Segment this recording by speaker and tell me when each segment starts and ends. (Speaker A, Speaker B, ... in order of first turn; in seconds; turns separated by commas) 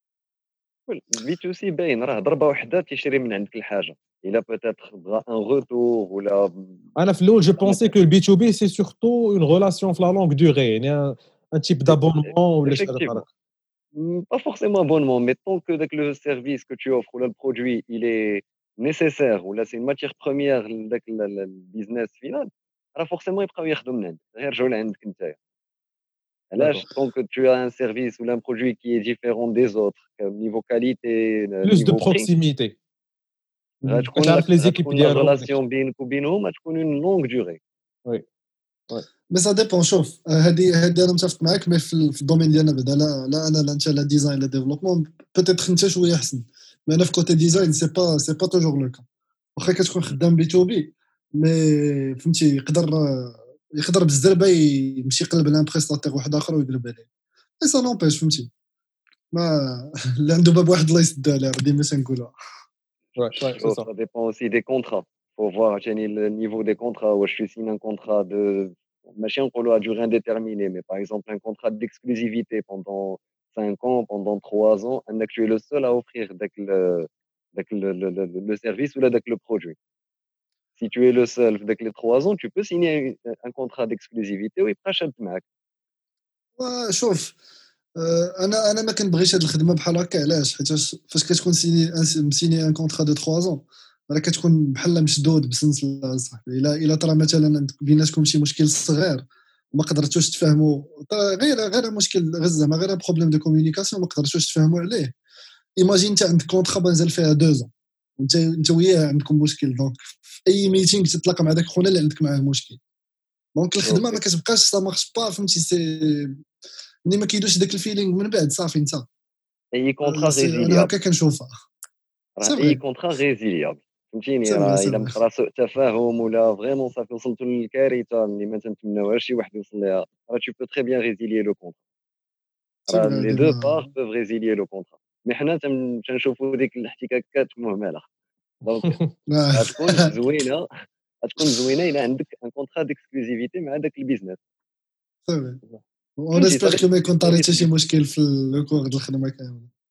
Speaker A: 0.9-6.8, Speaker B: 7.0-13.2, Speaker A: 7.6-7.9, Speaker A: 11.9-13.2, Speaker A: 13.9-25.4, Speaker A: 26.5-32.3, Speaker B: 26.6-26.8, Speaker B: 31.6-32.7, Speaker A: 33.9-37.6, Speaker B: 34.1-35.5, Speaker C: 39.3-49.0, Speaker C: 49.6-57.1, Speaker C: 57.6-58.5, Speaker C: 59.3-62.3, Speaker B: 63.2-63.9, Speaker A: 63.4-79.8, Speaker A: 80.8-85.4, Speaker C: 86.6-87.3, Speaker C: 88.0-105.1, Speaker C: 105.8-112.8, Speaker C: 113.5-116.3, Speaker A: 113.8-114.2, Speaker C: 117.0-119.0, Speaker A: 119.7-120.9, Speaker C: 120.0-121.5, Speaker A: 122.4-131.8, Speaker C: 122.4-122.8, Speaker C: 124.5-125.1, Speaker C: 132.9-133.9, Speaker A: 132.9-138.1, Speaker A: 138.6-139.0, Speaker B: 138.8-139.1, Speaker C: 139.3-140.1, Speaker A: 139.5-140.7, Speaker A: 141.2-144.4, Speaker C: 145.3-145.6, Speaker C: 146.2-149.7, Speaker A: 146.3-147.7